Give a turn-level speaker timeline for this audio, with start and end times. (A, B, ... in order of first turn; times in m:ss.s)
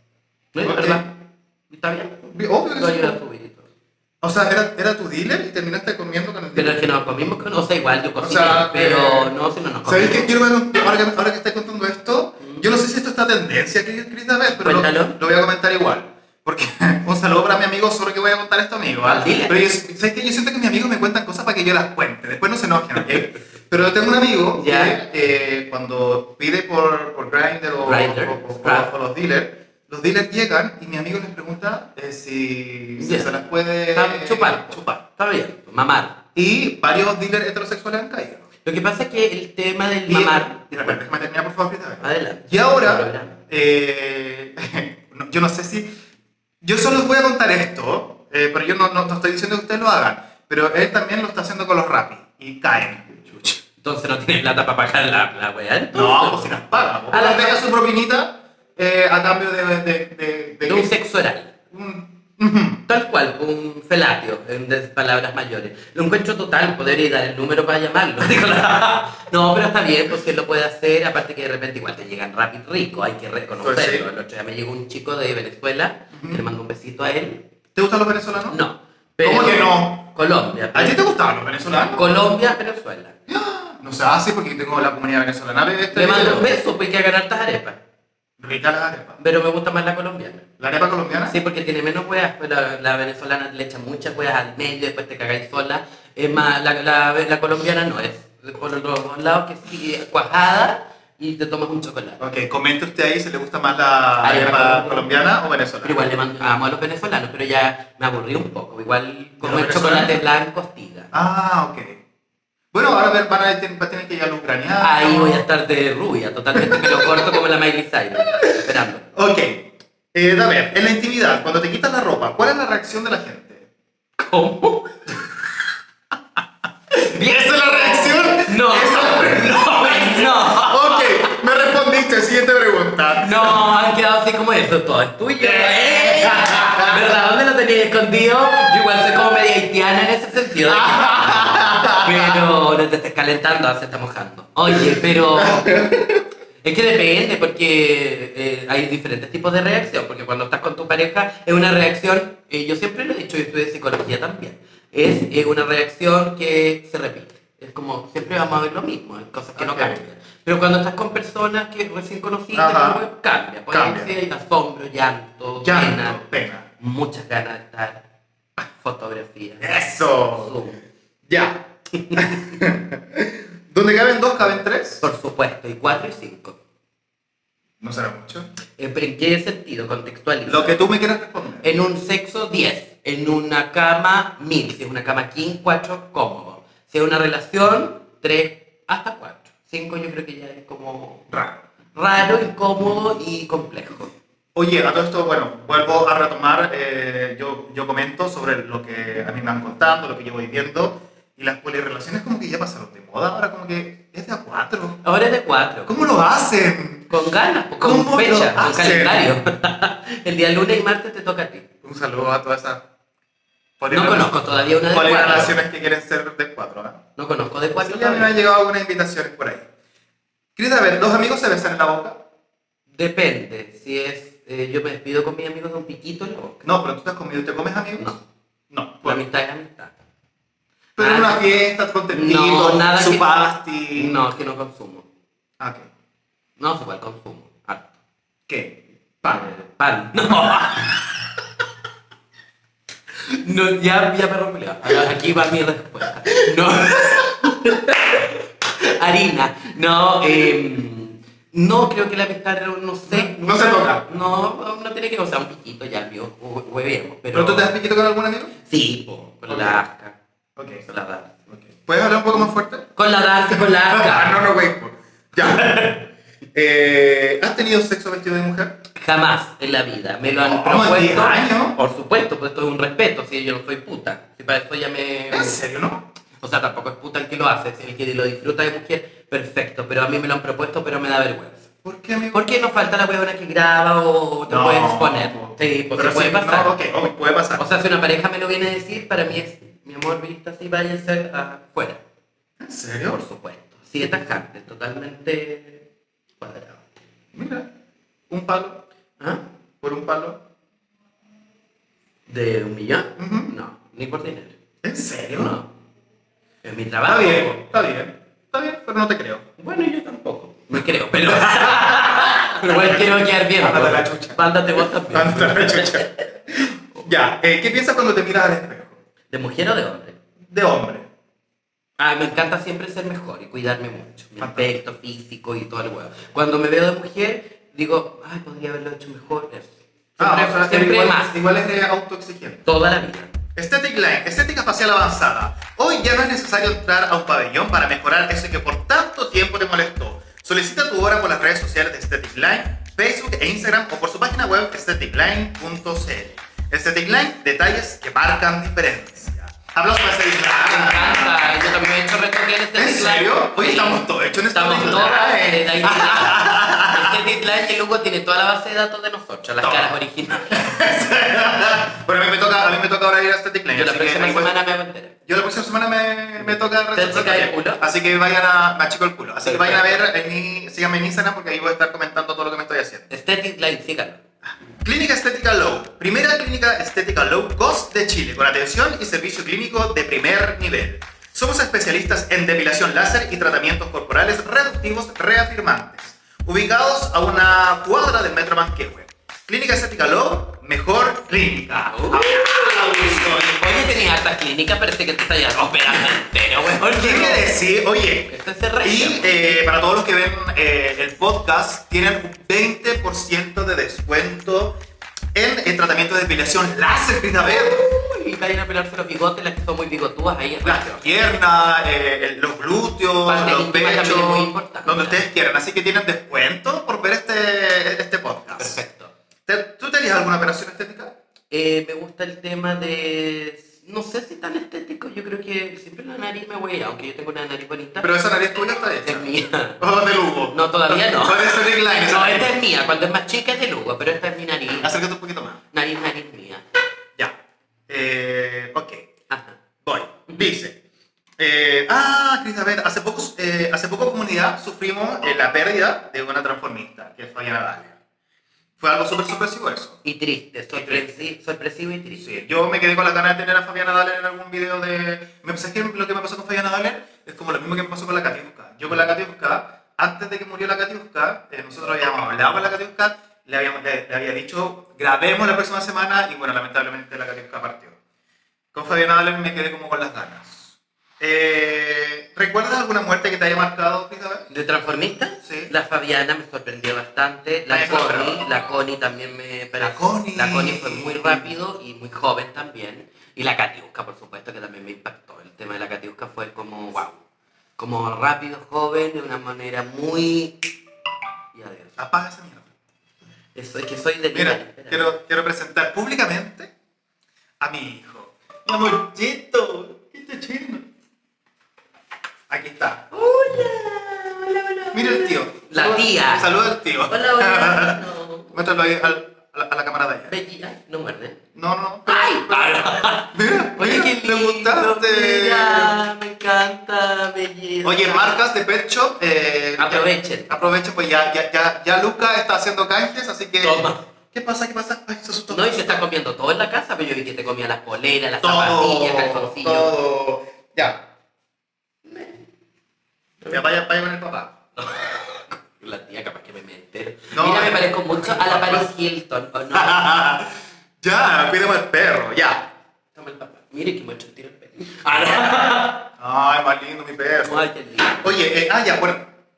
0:00.5-0:01.1 A
0:00.6-0:01.0 B
0:01.7-0:03.7 A
0:02.3-0:03.2 B
0:04.2-0:06.8 B
0:06.6-0:10.4 A
0:08.2-0:09.3 B
0:09.8-0:35.0 B
0:14.6-0:15.2 A
0:19.0-0:19.6 A
0:24.6-0:25.0 A
0:27.8-0:28.9 A
0:33.0-0:33.4 A
0:33.9-0:36.2 A
0:36.4-0:38.4 B
0:38.6-0:41.0 A
0:40.1-0:45.9 B
0:42.0-0:43.4 A
0:46.6-0:53.6 B
0:53.8-0:57.6 A
0:55.9-1:00.9 B
1:00.7-1:01.5 A
1:01.7-1:02.8 B
1:02.9-1:17.4 A
1:13.6-1:14.1 B
1:16.1-1:16.4 B
1:17.8-1:18.6 B
1:18.5-1:21.0 A
1:19.2-1:20.1 B
1:20.7-1:22.0 B
1:21.9-1:23.2 A
1:23.3-1:26.6 B
1:25.9-1:27.8 A
1:28.4-1:29.2 B
1:29.2-1:30.5 A
1:30.6-1:31.4 B
1:31.2-1:42.2 A
1:42.2-1:46.0 B
1:44.2-1:45.1 A
1:45.8-1:51.1 A
1:49.4-1:50.2 B
1:51.1-1:52.0 B
1:52.7-1:55.4 B
1:54.8-1:59.0 A
1:56.6-1:57.4 B
1:58.4-2:03.7 B
2:04.2-2:05.3 A
2:06.9-2:11.4 A
2:07.0-2:13.6 B
2:13.2-2:25.9 A
2:15.4-2:17.0 B
2:20.7-2:22.4 B
2:24.7-2:26.2 B
2:26.6-2:46.2 A
2:39.6-2:40.0 B
2:42.5-2:43.0 B
2:43.7-2:44.1 B
2:45.6-2:46.7 B
2:46.8-2:48.0 A
2:48.6-2:49.7 A
2:49.6-2:50.6 B
2:50.4-2:50.8 A
2:51.3-2:55.0 B
2:51.9-2:52.4 A
2:55.0-2:56.6 A
2:57.8-2:58.5 B
2:58.8-3:00.9 A
3:00.5-3:01.6 B
3:01.6-3:11.3 A
3:11.3-3:11.6 B
3:12.0-3:14.1 A
3:14.6-3:25.0 B
3:25.0-3:26.0 A
3:25.9-3:27.1 B
3:27.1-3:31.7 A
3:27.8-3:29.3 B
3:31.8-3:32.8 B
3:33.8-3:34.4 B
3:33.9-3:35.6 A
3:34.9-3:37.0 B
3:37.2-3:38.3 A
3:37.8-3:39.7 B
3:40.6-3:42.2 B
3:42.9-3:46.6 A
3:46.6-3:48.1 B
3:48.7-3:49.2 B
3:49.0-3:49.9 A
3:51.0-3:54.2 B
3:51.0-3:51.4 A
3:52.1-3:53.3 A
3:54.0-3:55.0 A
3:55.6-3:55.9 B
3:56.6-3:57.9 A
3:58.5-3:59.5 B
3:59.2-4:00.9 A
4:00.3-4:01.2 B
4:03.2-4:17.7 A
4:06.9-4:07.8 B
4:13.1-4:14.0 B
4:17.3-4:18.5 B
4:18.6-4:20.2 A
4:19.5-4:19.8 B
4:20.6-4:20.8 B
4:20.9-4:21.5 A
4:21.6-4:22.9 B
4:23.0-4:24.4 A
4:23.5-4:28.8 B
4:29.0-4:35.6 A
4:30.4-4:31.8 B
4:35.3-4:36.1 B
4:36.4-4:41.7 A
4:41.8-4:42.4 B
4:42.3-4:46.7 A
4:44.5-4:47.6 B
4:47.6-4:52.0 A
4:52.6-4:53.2 B
4:53.1-4:55.8 A
4:56.4-4:56.9 A
4:57.3-4:57.7 B
4:58.3-4:58.9 B
4:59.8-5:00.4 B
5:02.3-5:04.6 A
5:03.2-5:03.5 B
5:04.8-5:05.6 B
5:05.4-5:05.7 A
5:06.6-5:07.6 A
5:07.1-5:09.4 B
5:09.6-5:16.3 A
5:11.3-5:19.0 B
5:19.3-5:20.2 A
5:20.5-5:21.1 B
5:22.0-5:31.4 A
5:24.4-5:24.7 B
5:30.2-5:32.6 B
5:32.6-5:33.3 A
5:33.6-5:51.6 B
5:50.6-6:00.8 A
5:52.8-5:57.2 B
5:59.6-6:04.6 B
6:03.8-6:05.2 A
6:05.3-6:13.1 B
6:06.9-6:07.8 A
6:09.5-6:10.0 A
6:13.1-6:14.2 A
6:14.8-6:34.0 B
6:31.9-6:37.5 A
6:36.7-6:44.8 B
6:38.3-6:39.4 A
6:45.3-6:47.9 B
6:47.5-6:51.1 A
6:50.6-6:58.8 B
6:53.3-6:55.2 A
6:58.6-6:59.1 A
6:59.5-7:01.1 B
7:01.5-7:08.1 A
7:08.0-7:12.6 B
7:09.0-7:09.8 A
7:10.5-7:14.9 A
7:14.8-7:15.6 B
7:15.7-7:16.6 A
7:17.9-7:19.1 B
7:19.3-7:19.6 A
7:19.8-7:20.8 B
7:21.4-7:28.0 B
7:28.8-7:30.0 B
7:30.0-7:32.3 A
7:30.7-7:31.1 B
7:32.2-7:48.0 B
7:48.7-7:54.5 B
7:54.5-8:07.2 A
7:55.4-7:55.7 B
7:57.7-7:58.4 B
7:59.8-8:01.5 B
8:07.8-8:10.6 A
8:11.5-8:12.0 A
8:12.0-8:12.7 B
8:13.6-8:15.1 A
8:14.3-8:16.7 B
8:17.6-8:20.9 B
8:22.5-8:23.1 B
8:23.1-8:28.6 A
8:24.9-8:30.3 B
8:30.3-8:31.4 A
8:31.6-8:36.0 B
8:32.1-8:38.4 A
8:37.8-8:46.0 B
8:39.8-8:40.6 A
8:43.6-8:44.0 A
8:45.5-8:49.9 A
8:48.4-8:51.0 B
8:52.1-8:52.4 A
8:53.5-8:54.6 B
8:54.8-9:00.1 A
8:57.3-8:58.9 B
8:59.7-9:02.7 B
9:03.2-9:06.1 A
9:06.2-9:07.6 B
9:07.4-9:08.3 A
9:08.2-9:09.3 B